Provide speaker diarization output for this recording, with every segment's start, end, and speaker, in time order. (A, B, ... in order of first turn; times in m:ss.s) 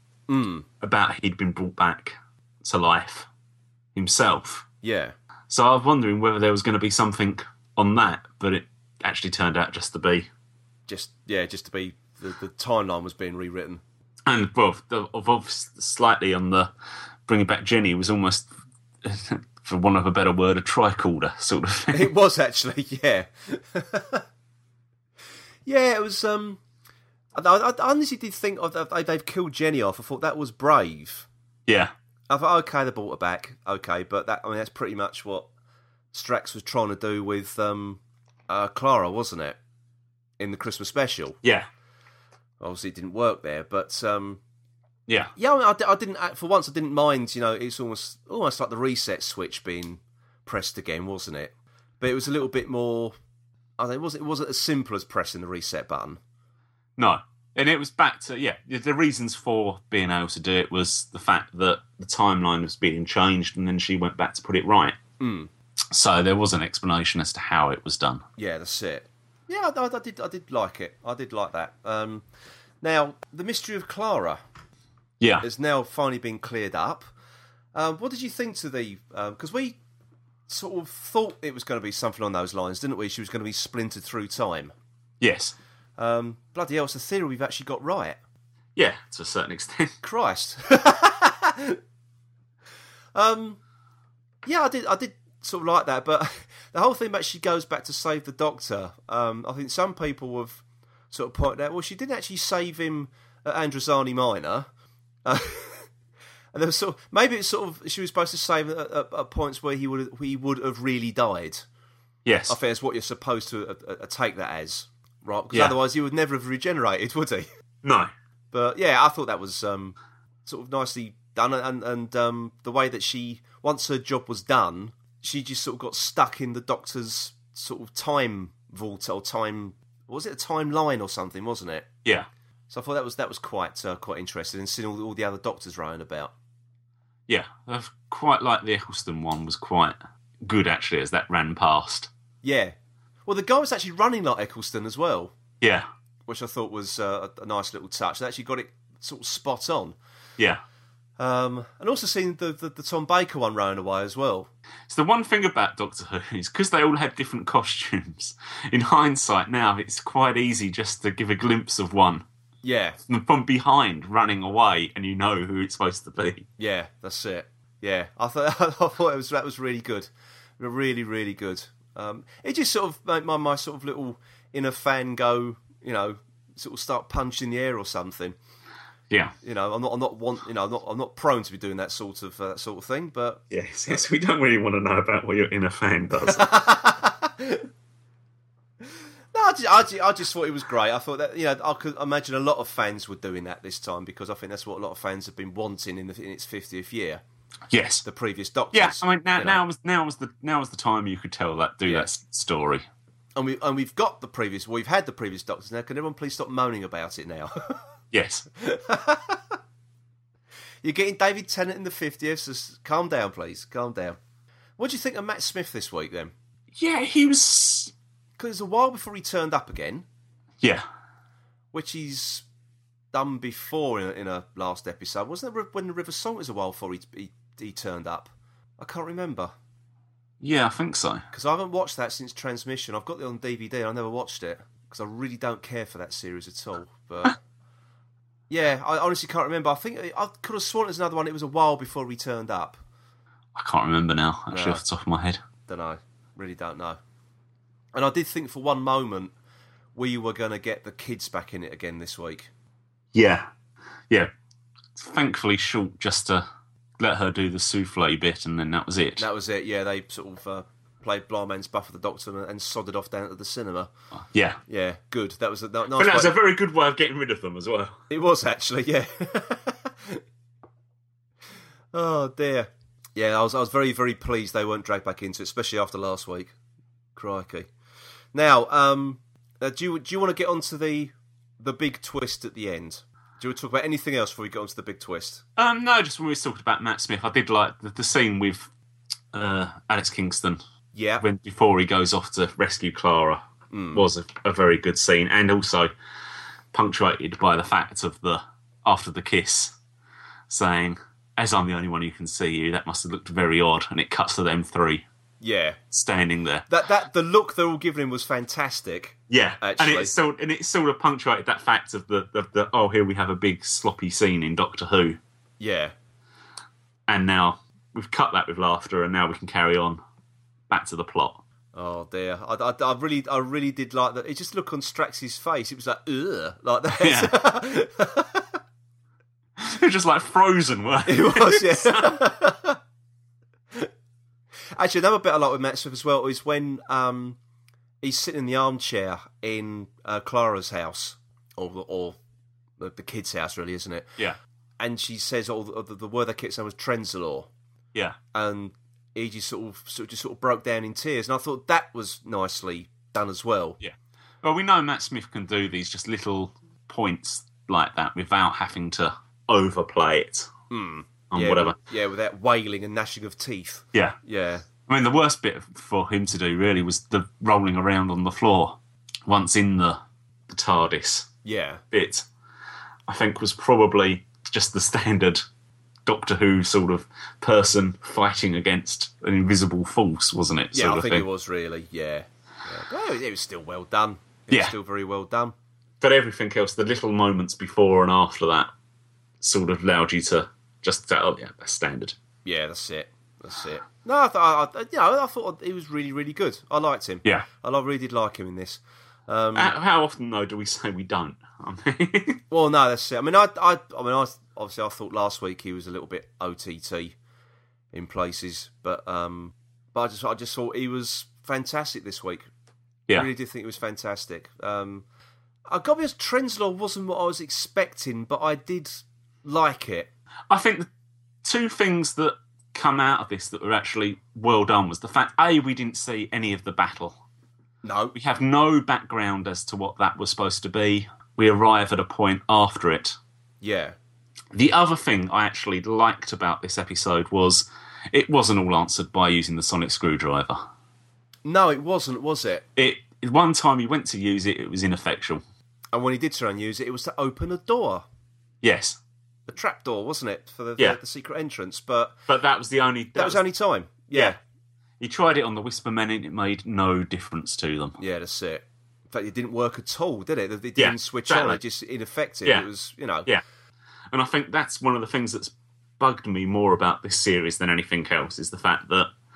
0:00.3-0:00.6 A
0:00.8-0:03.3 B
0:03.9-0:04.6 B
0:04.8-0:05.1 A
0:05.5-0:10.3 B
0:10.9-0:13.8 A
0:14.2-0:16.7 B
0:17.3-0:18.5 B
0:19.0-0:22.1 B
0:21.9-0:24.2 A
0:25.6-0:26.6 A
0:27.3-0:31.3 A
0:31.7-0:31.9 B
0:32.3-0:35.5 A
0:36.1-0:39.6 A
0:40.4-0:41.4 A
0:41.4-0:41.7 B
0:42.6-0:44.4 A
0:45.1-0:45.3 B
0:45.4-0:53.1 A
0:53.8-0:56.2 A
0:57.0-1:05.0 B
1:05.2-1:05.5 A
1:05.9-1:08.2 B
1:08.4-1:12.2 A
1:12.8-1:14.4 A
1:15.2-1:15.4 B
1:15.4-1:17.0 A
1:17.7-1:19.8 A
1:20.5-1:24.7 A
1:25.2-1:25.6 B
1:26.0-1:28.2 A
1:28.8-1:30.0 B
1:30.0-1:31.8 A
1:33.1-1:33.6 A
1:34.4-1:44.7 A
1:45.2-1:45.9 A
1:46.5-1:51.6 A
1:52.2-1:52.6 B
1:52.5-1:57.5 A
1:57.8-1:58.1 B
1:58.5-2:11.9 A
2:12.7-2:16.3 A
2:17.3-2:22.1 B
2:22.4-2:22.7 A
2:23.2-2:25.3 A
2:25.6-2:25.9 B
2:26.3-2:29.9 A
2:31.2-2:34.5 A
2:34.9-2:42.2 B
2:42.6-2:43.0 A
2:43.1-2:46.4 B
2:46.6-2:58.4 A
2:59.1-2:59.3 B
2:59.4-3:03.4 A
3:03.5-3:06.6 B
3:06.2-3:07.6 A
3:09.3-3:17.2 A
3:17.7-3:18.0 B
3:18.0-3:19.6 A
3:18.7-3:22.8 B
3:23.4-3:27.8 A
3:28.1-3:28.4 B
3:28.6-3:29.6 A
3:30.8-3:34.2 A
3:34.8-3:36.3 A
3:36.7-3:37.9 B
3:38.4-3:40.0 A
3:41.7-3:42.4 A
3:43.1-3:49.5 A
3:50.4-3:51.2 B
3:51.3-3:57.4 A
3:58.5-4:02.8 A
4:03.5-4:05.4 B
4:04.5-4:04.8 A
4:05.7-4:07.0 A
4:07.9-4:09.3 A
4:09.9-4:12.5 A
4:13.1-4:13.5 B
4:14.9-4:16.4 B
4:17.0-4:19.2 B
4:19.2-4:23.9 A
4:24.3-4:24.6 B
4:24.7-4:26.3 A
4:25.9-4:28.0 B
4:28.1-4:30.2 A
4:31.9-4:36.5 A
4:37.2-4:37.7 A
4:38.3-4:45.4 A
4:45.6-4:48.7 B
4:49.3-4:50.6 B
4:50.9-4:51.2 A
4:51.2-4:55.9 B
4:53.7-4:54.0 A
4:56.7-4:59.8 B
5:00.5-5:05.0 B
5:05.4-5:05.8 A
5:05.9-5:06.6 B
5:06.7-5:10.1 A
5:09.3-5:15.2 B
5:15.6-5:15.9 A
5:17.1-5:20.0 B
5:20.7-5:21.4 B
5:21.7-5:28.5 A
5:27.0-5:27.4 B
5:29.6-5:32.2 B
5:31.1-5:32.8 A
5:34.7-5:37.4 A
5:38.0-5:42.2 A
5:42.8-5:44.2 A
5:44.8-5:47.5 A
5:48.3-5:53.8 A
5:53.8-6:00.5 B
6:00.7-6:04.6 A
6:01.3-6:01.8 B
6:04.9-6:11.3 B
6:11.4-6:11.8 A
6:11.9-6:12.3 B
6:13.1-6:15.4 B
6:16.0-6:21.2 B
6:20.7-6:25.5 A
6:26.0-6:28.7 B
6:29.4-6:32.2 B
6:32.4-6:39.7 A
6:39.5-6:42.4 B
6:42.5-6:47.1 A
6:47.9-6:52.5 A
6:53.1-6:55.0 A
6:55.7-7:00.1 A
7:00.5-7:00.9 B
7:01.4-7:07.2 B
7:07.8-7:08.1 A
7:08.1-7:13.2 B
7:13.6-7:14.0 A
7:14.5-7:20.6 B
7:21.4-7:22.6 A
7:22.8-7:25.4 B
7:25.9-7:28.0 A
7:28.6-7:29.0 B
7:29.5-7:32.1 A
7:32.3-7:33.4 B
7:33.1-7:34.4 A
7:35.0-7:38.0 B
7:38.0-7:43.3 A
7:40.8-7:41.6 B
7:44.1-7:49.1 B